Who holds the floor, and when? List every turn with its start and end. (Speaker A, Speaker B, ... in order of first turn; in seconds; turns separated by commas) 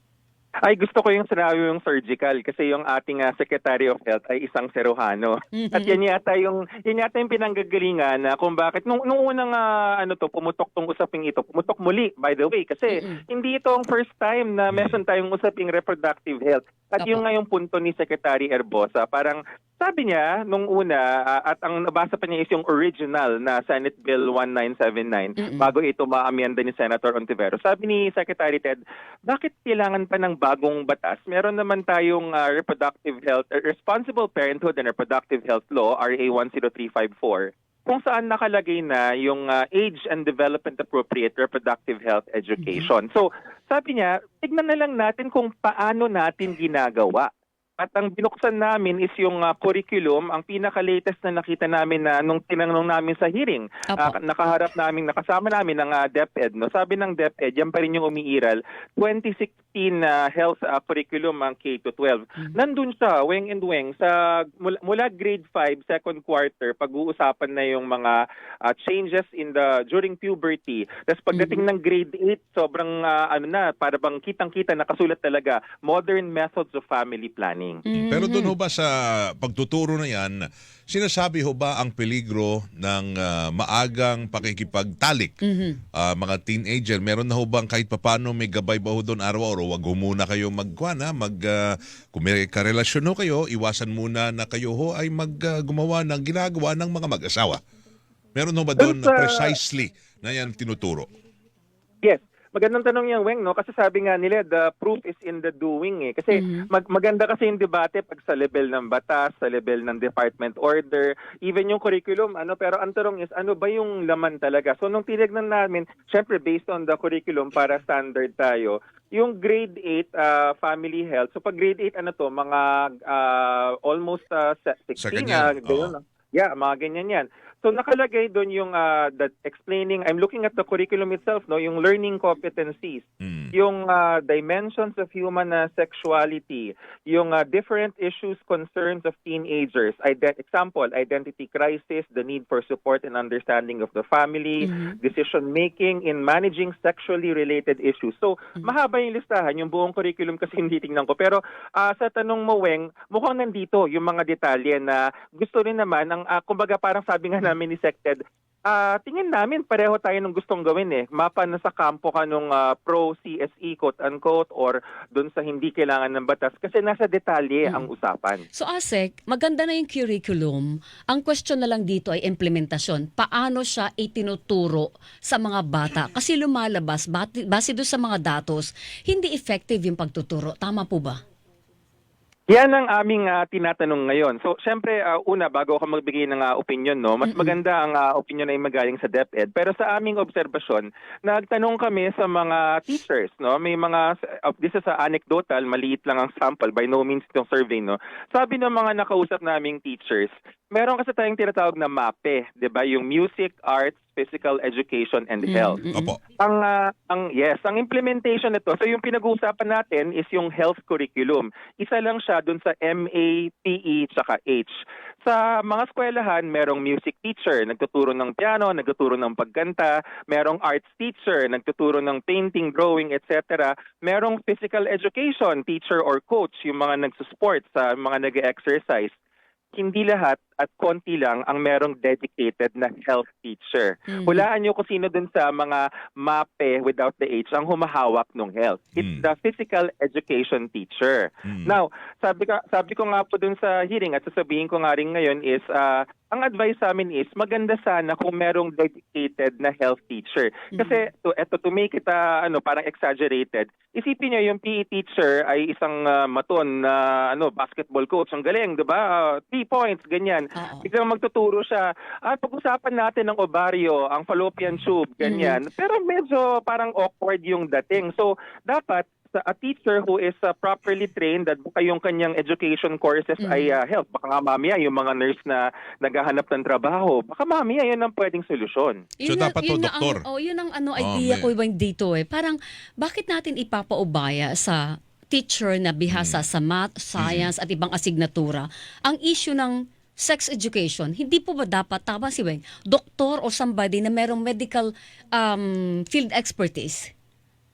Speaker A: 0.6-77.8, Speaker B: 5.6-6.0, Speaker B: 12.9-13.2, Speaker C: 14.7-15.0, Speaker B: 25.4-25.7, Speaker B: 53.9-54.2, Speaker B: 71.3-71.6, Speaker B: 77.9-78.5, Speaker C: 77.9-85.4, Speaker B: 85.4-85.8, Speaker C: 86.0-97.6, Speaker C: 98.3-101.1, Speaker A: 98.8-99.6, Speaker A: 102.0-168.4, Speaker B: 106.3-106.7, Speaker C: 125.0-125.9, Speaker C: 133.2-133.5, Speaker B: 144.6-145.0, Speaker B: 168.6-181.2, Speaker A: 182.5-205.8, Speaker B: 187.2-187.6, Speaker B: 205.4-206.2, Speaker C: 205.9-206.2, Speaker A: 206.4-214.7, Speaker A: 215.2-229.1, Speaker A: 229.8-279.1, Speaker B: 234.1-234.5, Speaker C: 239.0-239.2, Speaker C: 241.4-241.8, Speaker B: 250.7-251.0, Speaker B: 260.6-260.9, Speaker B: 265.2-265.6, Speaker B: 273.4-273.8, Speaker B: 279.2-297.1, Speaker C: 279.2-280.2, Speaker C: 281.0-281.5, Speaker C: 286.1-286.4, Speaker C: 287.2-287.5